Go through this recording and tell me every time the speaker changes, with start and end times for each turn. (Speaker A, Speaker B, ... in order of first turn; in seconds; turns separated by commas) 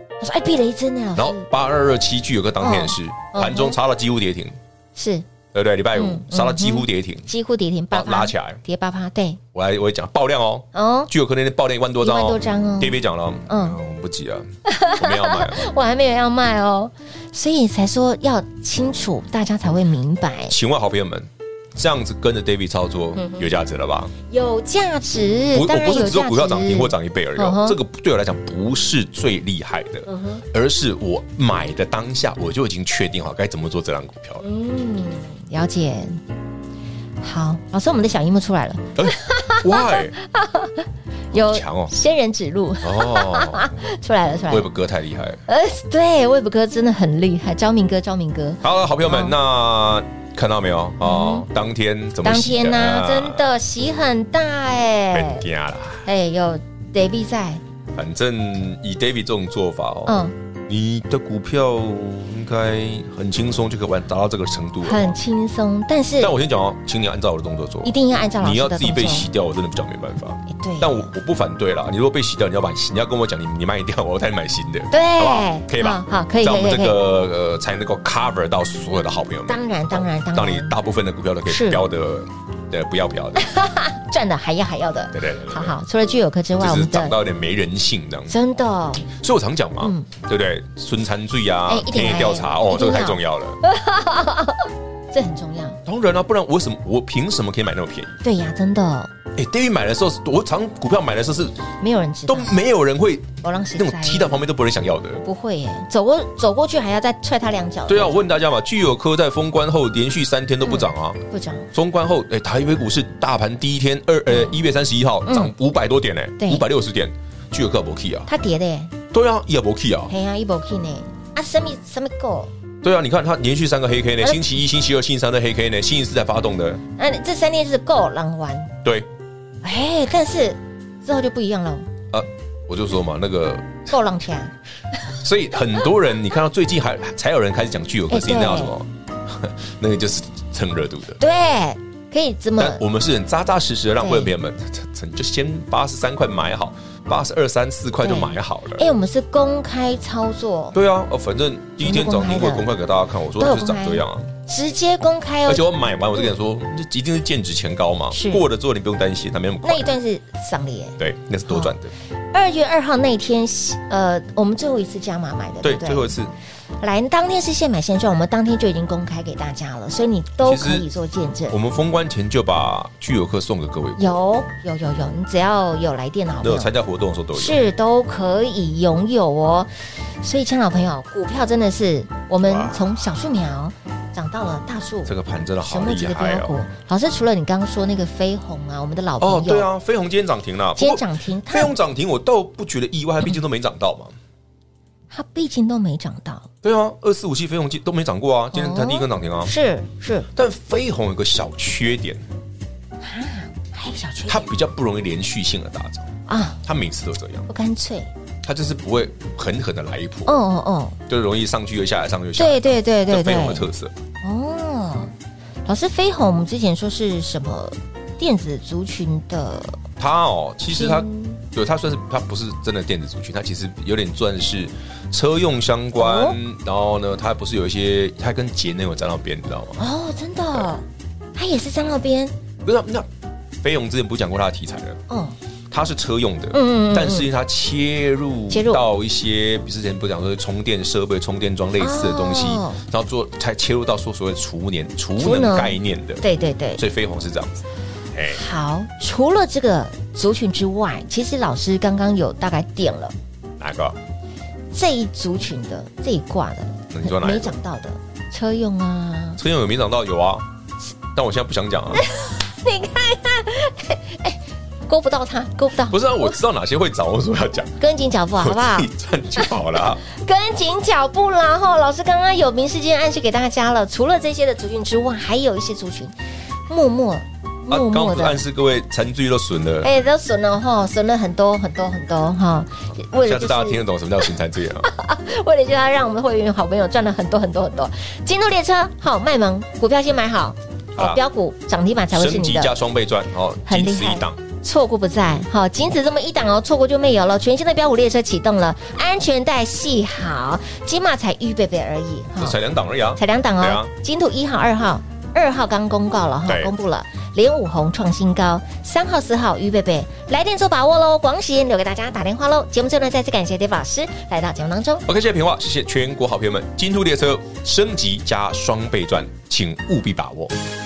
Speaker A: 0.2-1.4, Speaker B: 1.2-4.6, Speaker A: 2.6-3.8, Speaker A: 5.0-5.2, Speaker B: 5.5-7.3, Speaker A: 6.0-9.4, Speaker B: 7.9-8.6, Speaker B: 9.5-15.6, Speaker A: 10.7-11.1, Speaker A: 12.0-13.8, Speaker A: 14.7-20.5, Speaker B: 20.5-24.1, Speaker A: 23.2-23.5, Speaker A: 24.3-27.8, Speaker B: 25.5-34.4, Speaker A: 30.1-30.4, Speaker A: 34.4-36.2, Speaker A: 37.2-44.7, Speaker B: 39.0-40.1, Speaker B: 41.3-41.9, Speaker B: 42.8-43.7, Speaker B: 44.5-45.4, Speaker A: 45.5-49.4, Speaker B: 48.6-53.5, Speaker A: 51.0-51.5, Speaker A: 52.2-55.5, Speaker B: 55.1-56.1, Speaker A: 56.0-57.6, Speaker B: 58.0-65.2, Speaker A: 60.1-60.3, Speaker A: 64.8-66.3, Speaker B: 66.2-83.5, Speaker A: 67.8-69.3, Speaker A: 70.5-71.1, Speaker A: 74.9-77.0, Speaker A: 79.5-80.8, Speaker A: 81.5-81.8, Speaker A: 83.4-87.2, Speaker B: 85.1-85.8, Speaker B: 86.6-88.3, Speaker A: 88.3-89.1, Speaker B: 89.1-93.6, Speaker A: 89.8-90.1, Speaker A: 91.7-95.8, Speaker B: 95.9-98.1, Speaker A: 98.2-99.1, Speaker B: 99.3-101.6, Speaker A: 101.8-102.6, Speaker B: 102.3-105.2, Speaker A: 103.4-104.3, Speaker A: 105.2-108.2, Speaker B: 107.9-111.2, Speaker A: 110.6-111.7, Speaker B: 111.7-118.3, Speaker A: 115.3-115.5, Speaker A: 116.4-116.7, Speaker A: 118.3-118.9, Speaker B: 119.1-120.1, Speaker A: 120.1-122.5, Speaker B: 122.8-126.8, Speaker A: 127.0-128.8, Speaker A: 129.6-131.9, Speaker B: 132.1-133.9, Speaker A: 133.9-134.5, Speaker B: 135.2-141.2, Speaker A: 138.1-138.7, Speaker A: 141.2-142.8, Speaker B: 142.6-148.9, Speaker A: 144.0-144.3, Speaker A: 148.0-150.8, Speaker B: 150.7-154.3, Speaker A: 151.8-152.7, Speaker A: 153.4-155.7, Speaker B: 155.5-159.9, Speaker A: 158.1-158.4, Speaker A: 159.6-161.7, Speaker B: 161.0-161.9, Speaker A: 162.3-166.1, Speaker B: 165.6-166.3, Speaker A: 166.8-171.6, Speaker B: 170.4-170.9, Speaker B: 171.5-174.1, Speaker A: 174.0-176.7, Speaker B: 176.4-177.6, Speaker A: 177.3-179.7, Speaker A: 180.2-189.7, Speaker B: 182.4-182.9, Speaker B: 185.1-186.5, Speaker B: 189.2-194.1, Speaker A: 190.8-191.7, Speaker A: 195.1-196.5, Speaker B: 196.6-199.5, Speaker A: 198.5-200.3, Speaker B: 200.3-202.2, Speaker A: 203.0-204.5, Speaker B: 204.3-206.1, Speaker A: 206.3-206.6, Speaker B: 206.6-207.5, Speaker A: 207.5-208.1, Speaker B: 208.4-210.3, Speaker A: 210.3-211.0, Speaker B: 211.1-213.9, Speaker A: 212.4-213.7, Speaker A: 214.2-215.1, Speaker A: 215.7-219.8, Speaker B: 220.0-229.8, Speaker A: 220.7-221.4, Speaker A: 226.0-226.4, Speaker A: 229.8-232.3, Speaker B: 232.6-233.1, Speaker B: 233.6-235.0, Speaker A: 235.1-235.3, Speaker B: 235.7-246.2, Speaker A: 236.5-237.3, Speaker A: 238.5-238.8, Speaker A: 241.8-242.8, Speaker A: 245.2-246.8, Speaker B: 246.8-247.6, Speaker B: 248.1-248.4, Speaker A: 248.3-253.2, Speaker B: 253.6-254.0, Speaker A: 254.7-259.4, Speaker B: 256.9-257.6, Speaker B: 259.4-260.5, Speaker B: 261.1-262.0, Speaker A: 261.9-266.4, Speaker B: 265.9-267.8, Speaker A: 267.8-276.1, Speaker B: 268.4-270.0, Speaker A: 276.7-278.4, Speaker B: 277.7-279.9, Speaker A: 279.8-283.8, Speaker B: 283.2-284.9, Speaker A: 284.8-292.8, Speaker B: 291.0-291.2, Speaker B: 292.1-294.4, Speaker A: 293.7-302.6, Speaker B: 302.4-303.9, Speaker A: 303.2-315.1, Speaker B: 306.5-306.7, Speaker B: 315.1-320.5